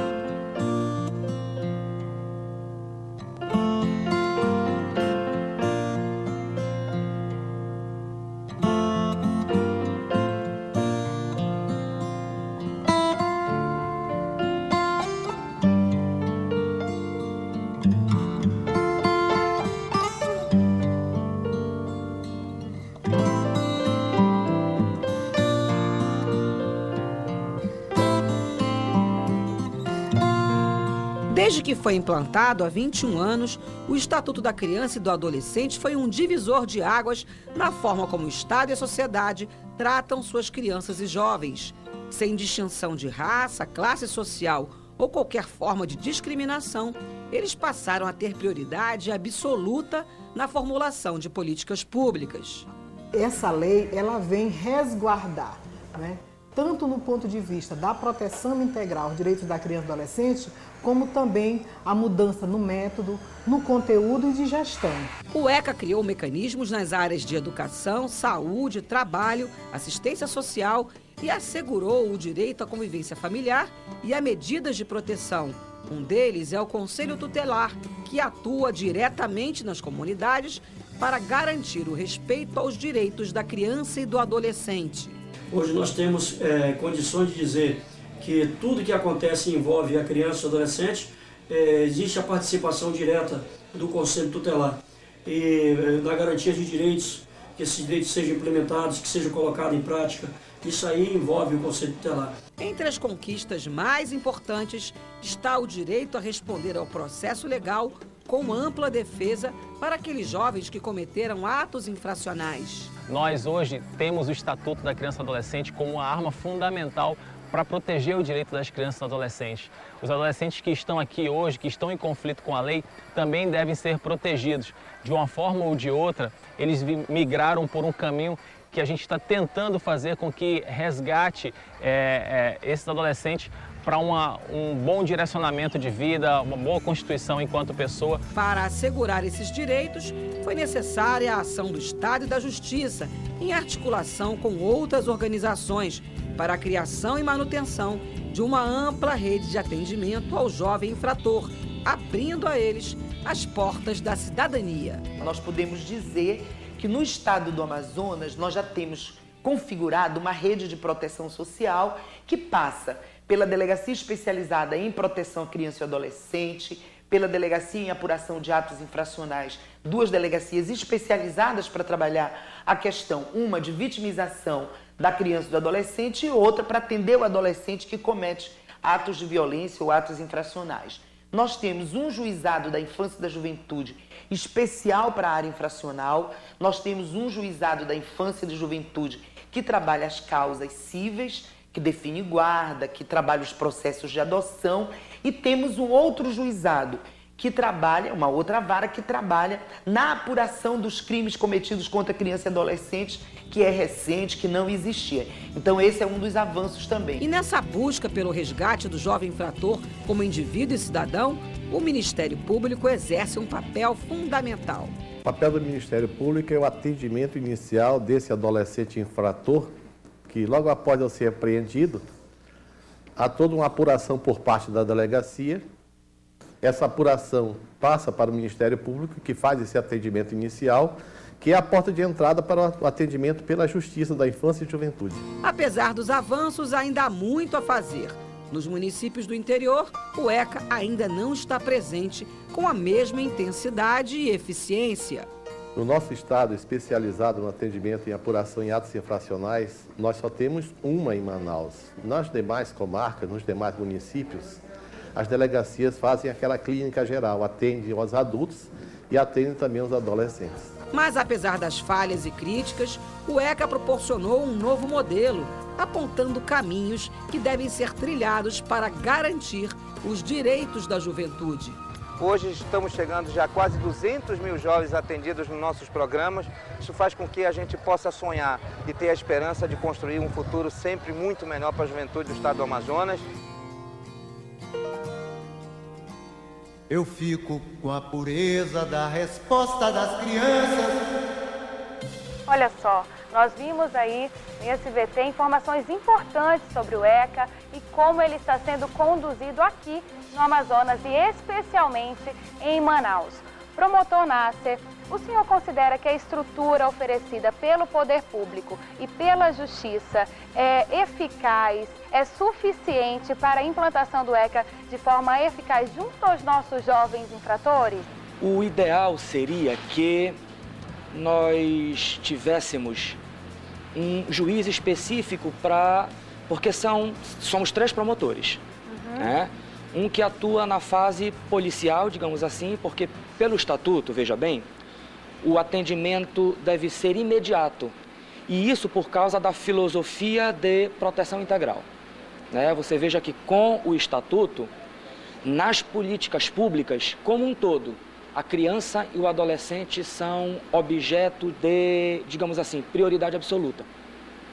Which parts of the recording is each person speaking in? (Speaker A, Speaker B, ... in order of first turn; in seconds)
Speaker A: 31.3-52.7, 65.3-85.2, 102.6-112.9, 138.3-155.0, 207.2-214.9, 235.4-245.3, 260.9-271.8
Speaker B: 53.1-65.1
Speaker C: 85.5-102.3
Speaker D: 113.1-138.2
Speaker E: 155.2-207.2
Speaker F: 215.2-219.7, 220.3-222.0, 223.2-225.6, 226.6-235.2, 245.7-254.6, 255.1-260.7
Speaker G: 272.2-283.2
Speaker H: 286.9-291.0
Speaker I: 292.5-318.1, 328.9-329.3
Speaker J: 318.4-320.4, 321.1-323.2, 323.9-328.6, 329.2-334.7, 335.4-337.9, 338.5-341.9, 342.5-344.7, 345.4-353.9